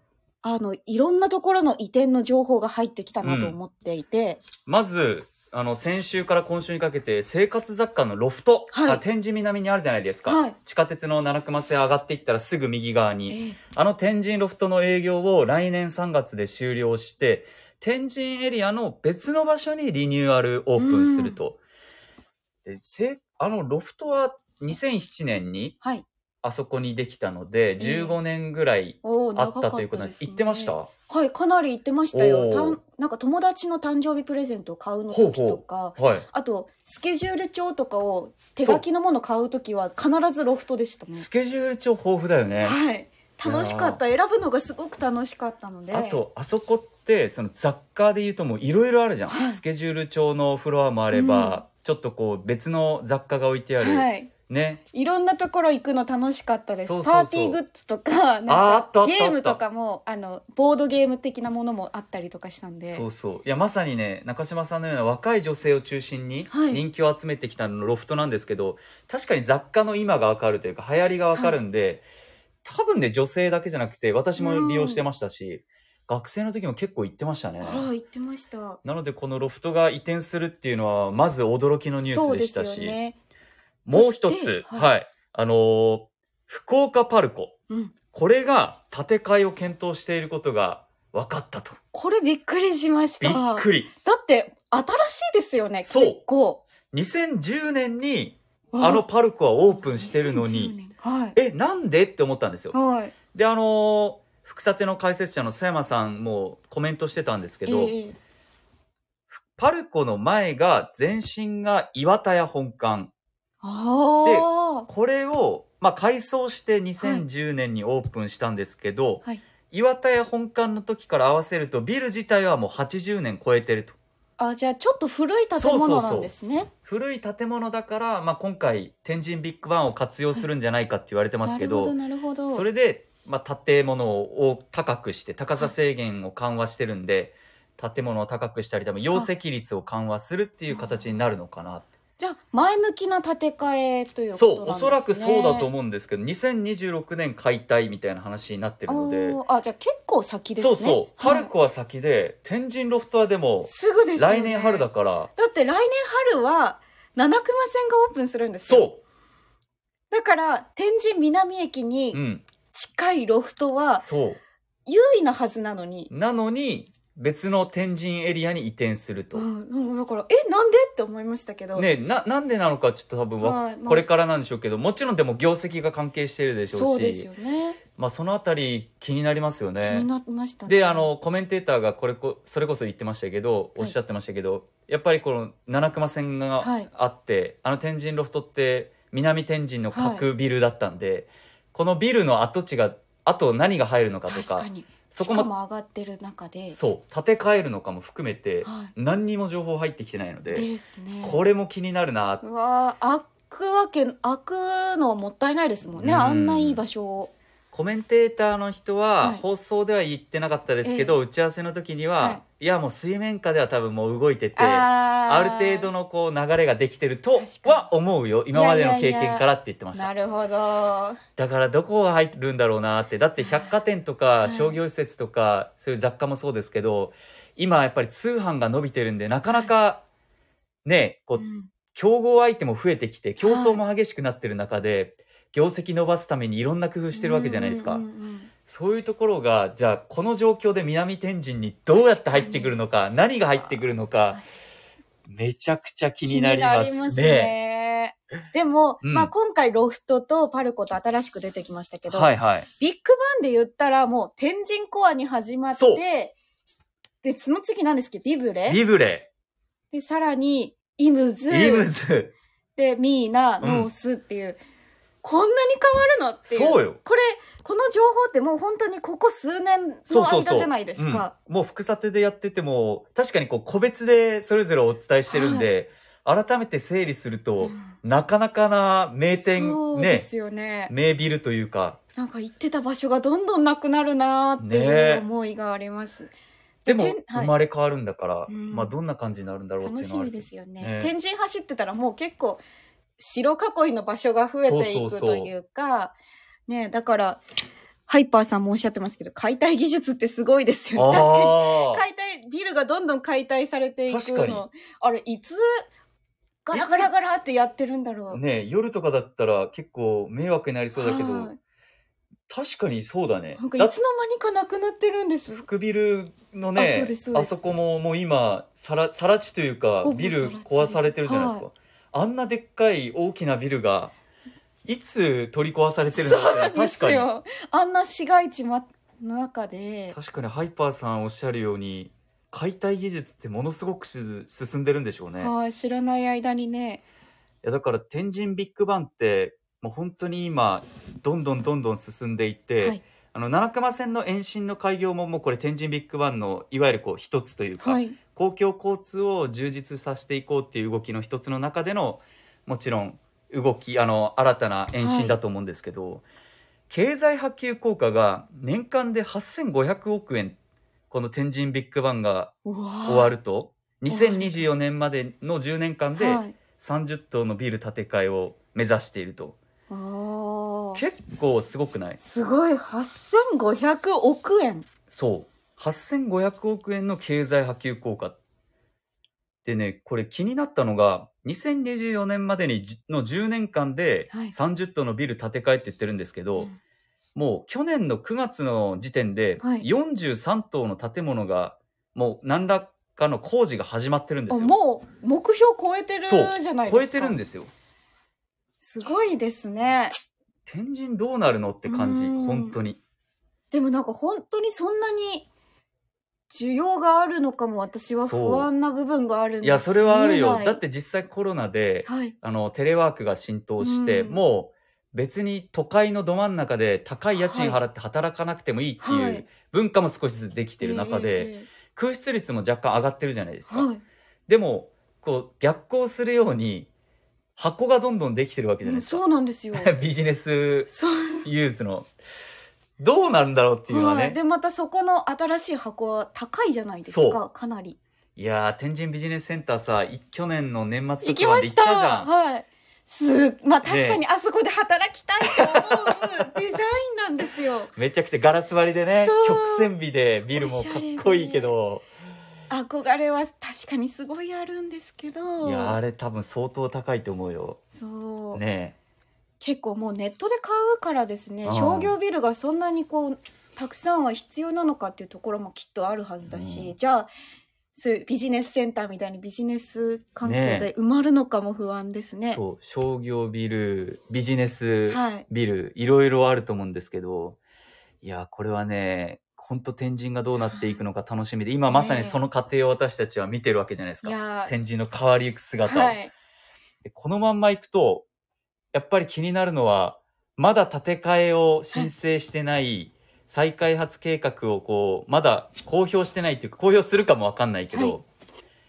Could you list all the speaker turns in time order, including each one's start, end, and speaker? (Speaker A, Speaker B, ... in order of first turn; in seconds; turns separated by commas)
Speaker A: 0.4-4.4, Speaker B: 3.2-3.6, Speaker B: 4.7-21.6, Speaker A: 8.7-9.0, Speaker A: 10.3-10.6, Speaker A: 13.3-13.6, Speaker A: 20.8-21.4, Speaker B: 22.6-25.8, Speaker B: 26.4-30.9, Speaker A: 27.8-28.2, Speaker A: 29.0-41.3, Speaker B: 32.1-32.8, Speaker B: 35.1-36.3, Speaker B: 41.2-42.8, Speaker A: 42.6-46.2, Speaker B: 43.5-44.0, Speaker B: 45.9-54.8, Speaker A: 49.3-49.6, Speaker A: 51.1-51.6, Speaker A: 53.8-54.3, Speaker A: 54.9-63.0, Speaker B: 56.9-57.6, Speaker B: 58.5-59.6, Speaker B: 62.9-72.0, Speaker A: 66.5-66.8, Speaker B: 72.6-77.9, Speaker A: 74.4-75.0, Speaker A: 77.6-78.8, Speaker B: 78.8-83.0, Speaker A: 81.9-83.2, Speaker B: 83.9-87.5, Speaker A: 83.9-84.9, Speaker B: 88.1-91.8, Speaker A: 91.9-96.6, Speaker B: 93.2-93.9, Speaker B: 95.9-96.2, Speaker B: 96.9-100.8, Speaker A: 98.7-99.0, Speaker A: 99.7-101.4, Speaker B: 101.3-102.8, Speaker A: 102.7-103.1, Speaker B: 103.3-108.0, Speaker A: 107.7-108.2, Speaker B: 109.3-113.1, Speaker A: 113.6-114.9, Speaker B: 114.2-124.0, Speaker A: 117.0-117.3, Speaker A: 124.4-126.7, Speaker B: 125.5-126.3, Speaker B: 126.9-132.0, Speaker A: 131.4-132.7, Speaker B: 132.5-141.9, Speaker A: 140.7-141.0, Speaker A: 142.2-145.7, Speaker B: 144.3-149.4, Speaker A: 148.9-151.5, Speaker B: 150.6-155.3, Speaker A: 153.7-158.9, Speaker B: 158.7-159.0, Speaker A: 160.1-162.2, Speaker B: 162.1-162.4, Speaker A: 162.7-164.1, Speaker B: 164.0-164.4, Speaker A: 164.9-166.1, Speaker B: 166.1-169.5, Speaker A: 169.3-171.9, Speaker B: 171.8-177.3, Speaker A: 173.4-174.0, Speaker A: 176.7-177.8, Speaker B: 178.0-180.1, Speaker A: 179.8-181.1, Speaker B: 180.7-195.5, Speaker A: 186.6-186.9, Speaker A: 189.9-190.2, Speaker A: 194.3-196.8, Speaker B: 196.7-200.7, Speaker A: 198.6-198.9, Speaker A: 200.5-201.4, Speaker B: 201.2-202.4, Speaker A: 202.4-207.3, Speaker B: 206.0-206.8, Speaker B: 207.7-220.1, Speaker A: 210.8-211.2, Speaker A: 214.6-215.9, Speaker A: 217.4-217.9, Speaker A: 218.5-221.2, Speaker B: 221.4-230.0, Speaker A: 223.4-223.8, Speaker A: 224.4-224.8, Speaker A: 229.5-229.7, Speaker B: 230.8-238.1, Speaker A: 231.4-231.7, Speaker A: 233.4-233.8, Speaker A: 237.1-238.5, Speaker B: 238.7-244.4, Speaker A: 241.9-242.8, Speaker A: 244.3-244.6, Speaker B: 245.3-247.5, Speaker A: 246.2-256.4, Speaker B: 249.0-249.3, Speaker B: 252.1-252.7, Speaker B: 255.7-256.0, Speaker A: 257.2-258.8, Speaker B: 258.7-259.3, Speaker A: 259.9-261.9, Speaker B: 261.5-262.3, Speaker A: 262.8-264.6, Speaker B: 263.6-263.9, Speaker A: 265.2-271.3, Speaker B: 266.5-267.0, Speaker B: 270.1-280.3, Speaker A: 275.3-275.7, Speaker A: 277.6-277.9, Speaker A: 279.3-280.9, Speaker B: 280.9-282.0, Speaker A: 282.1-286.3, Speaker B: 284.6-285.2, Speaker A: 286.9-287.5, Speaker B: 286.9-291.1, Speaker A: 288.5-288.9, Speaker A: 289.8-292.6, Speaker A: 293.2-296.2, Speaker B: 294.6-295.5, Speaker A: 296.7-297.4, Speaker A: 298.1-305.6, Speaker B: 300.9-302.0, Speaker B: 304.1-304.6, Speaker A: 306.6-308.4, Speaker B: 306.7-307.1, Speaker B: 308.3-311.5, Speaker A: 311.0-311.6, Speaker B: 312.5-313.9, Speaker A: 313.6-315.7, Speaker B: 315.5-324.1, Speaker A: 316.8-317.6, Speaker A: 320.0-321.7, Speaker B: 324.9-327.3, Speaker A: 326.1-330.2, Speaker B: 330.1-335.5, Speaker A: 335.4-337.0, Speaker B: 337.6-356.2, Speaker A: 347.8-348.2, Speaker A: 355.0-355.4, Speaker B: 356.9-360.6, Speaker B: 361.1-362.5, Speaker A: 362.6-363.3, Speaker B: 363.1-369.6, Speaker A: 364.1-364.7, Speaker A: 366.2-366.6, Speaker A: 369.9-371.0, Speaker B: 370.9-372.2, Speaker A: 372.2-374.9, Speaker B: 375.1-378.4, Speaker B: 379.6-386.7, Speaker B: 387.4-394.7, Speaker A: 389.6-389.9, Speaker A: 394.5-397.4, Speaker B: 396.2-397.7, Speaker A: 398.8-400.1, Speaker B: 400.7-403.0, Speaker A: 401.9-402.8, Speaker A: 403.7-405.5, Speaker A: 406.5-410.8, Speaker B: 408.2-408.7, Speaker B: 409.6-423.9, Speaker A: 412.1-412.3, Speaker A: 413.8-414.4, Speaker A: 417.4-417.8, Speaker A: 419.0-419.4, Speaker A: 420.8-421.7, Speaker A: 423.7-424.0, Speaker B: 424.5-426.9, Speaker B: 427.6-429.2, Speaker A: 428.8-429.9, Speaker B: 429.7-432.1, Speaker A: 430.9-431.5, Speaker B: 433.0-434.4, Speaker A: 433.9-438.0, Speaker B: 437.1-437.4, Speaker B: 438.4-442.3, Speaker A: 441.2-447.9, Speaker B: 443.8-444.2, Speaker B: 445.7-446.3, Speaker B: 448.0-452.1, Speaker A: 449.2-449.9, Speaker A: 450.5-451.7, Speaker A: 452.7-456.0, Speaker B: 455.6-457.8, Speaker A: 457.9-458.6, Speaker B: 458.5-459.0, Speaker A: 459.6-467.3, Speaker B: 461.6-462.2, Speaker B: 466.5-466.9, Speaker A: 467.9-472.6, Speaker B: 470.4-470.9, Speaker B: 472.5-477.6, Speaker A: 475.1-475.5, Speaker B: 478.2-486.2, Speaker A: 480.6-481.0, Speaker A: 481.9-482.4, Speaker A: 484.2-484.7, Speaker A: 485.8-486.3, Speaker B: 487.1-488.3, Speaker B: 488.9-498.2, Speaker A: 497.9-498.2